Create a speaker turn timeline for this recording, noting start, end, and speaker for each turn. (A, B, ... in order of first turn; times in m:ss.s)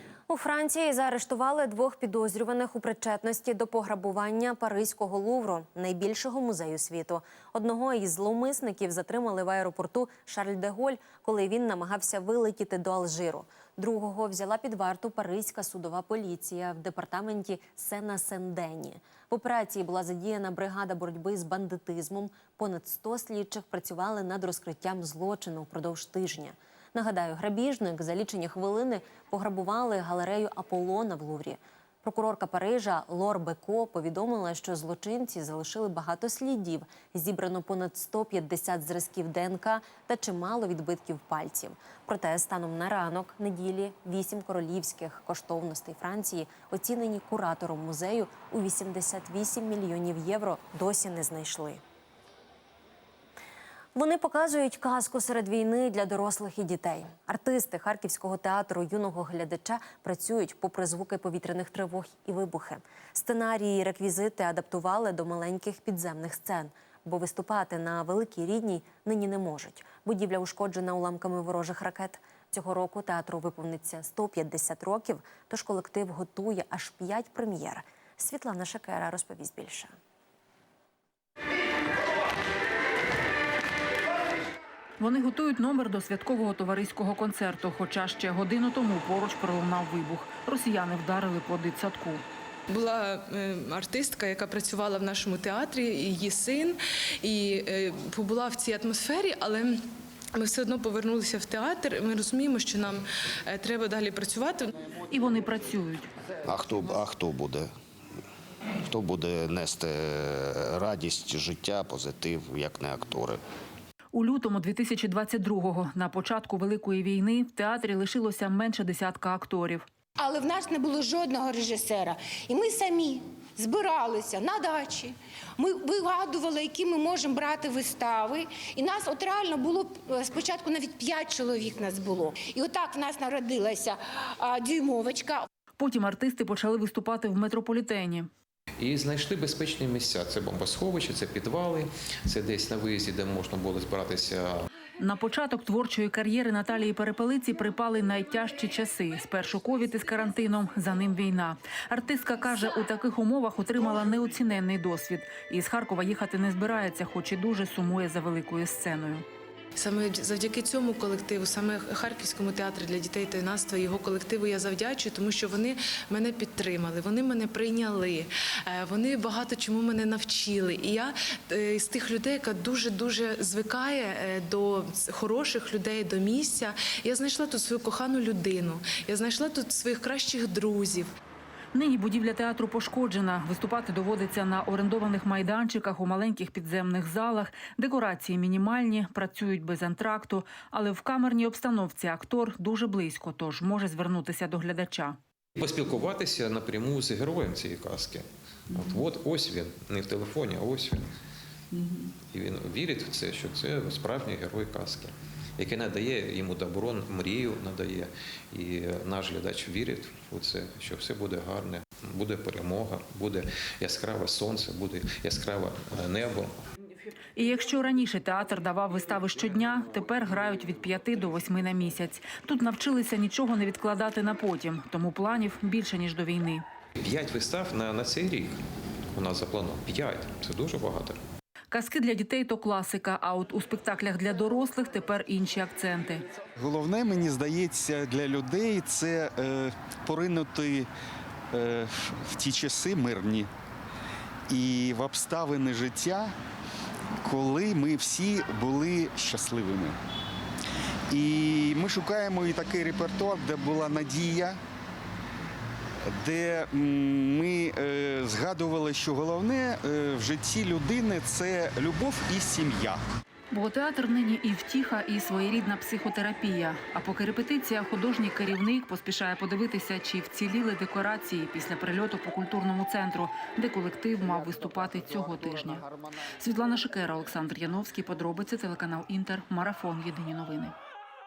0:00.3-0:51.8 A
0:54.0-1:20.0 A
1:25.0-1:32.2 B
1:32.7-1:44.7 C
1:45.1-1:46.1 B
1:46.5-1:47.7 D
1:48.9-1:53.4 D
1:54.1-1:59.9 B
2:00.2-2:15.5 E
2:15.8-2:18.3 B
2:18.8-2:24.7 F
2:25.0-2:39.2 B
2:39.8-3:01.1 C
3:01.7-3:15.2 B
3:15.6-3:21.1 F
3:22.3-3:36.6 F
3:37.4-3:46.6 B
3:47.0-3:48.6 F
3:49.1-3:51.2 F
3:51.7-3:56.2 B
3:56.6-4:00.9 G
4:01.5-4:03.5 G
4:04.5-4:06.3 G
4:07.2-4:10.0 G
4:11.1-4:14.6 G
4:16.1-4:23.0 G
4:23.5-4:40.8 B